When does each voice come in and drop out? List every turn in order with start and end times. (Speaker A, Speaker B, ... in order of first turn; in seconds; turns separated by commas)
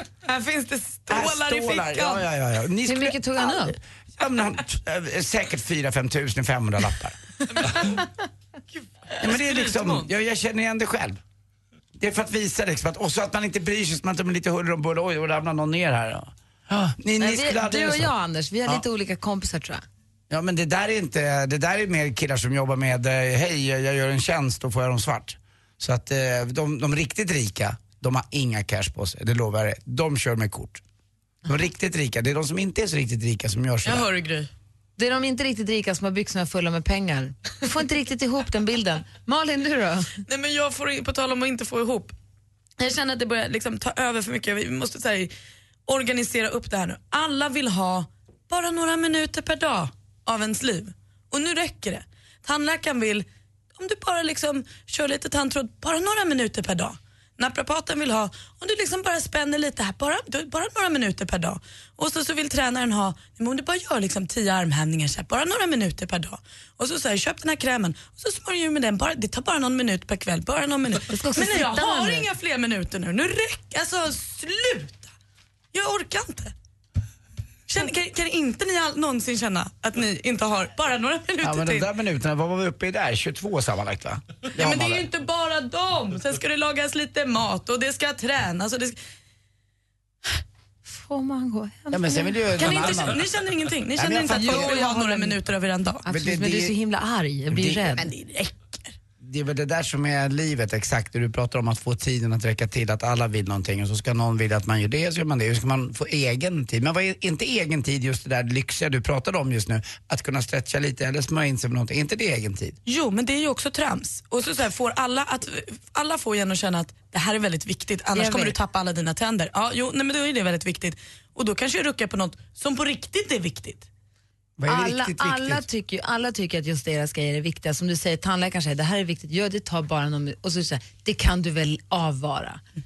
Speaker A: 0.2-2.2, Speaker B: 1.1-7.2, Speaker C: 2.9-3.8, Speaker A: 7.5-8.0, Speaker A: 8.8-10.1, Speaker B: 9.2-11.2, Speaker B: 12.0-18.1, Speaker C: 17.2-19.8, Speaker B: 20.3-30.8, Speaker B: 31.5-34.1, Speaker A: 33.8-34.5, Speaker C: 35.0-40.1, Speaker A: 40.3-42.1, Speaker A: 42.8-45.3, Speaker A: 45.9-75.1, Speaker C: 71.1-72.3, Speaker A: 75.7-76.5, Speaker A: 77.7-81.9, Speaker B: 81.4-85.1, Speaker A: 84.6-89.0, Speaker C: 90.9-92.8, Speaker B: 91.9-93.3, Speaker A: 92.6-96.0, Speaker B: 94.0-94.9, Speaker C: 94.3-95.4, Speaker C: 96.0-98.0, Speaker B: 96.1-96.8, Speaker B: 97.5-98.0, Speaker A: 98.0-98.9, Speaker B: 99.2-112.8, Speaker A: 112.9-123.9, Speaker C: 118.2-118.5, Speaker B: 124.6-125.7, Speaker C: 124.7-132.6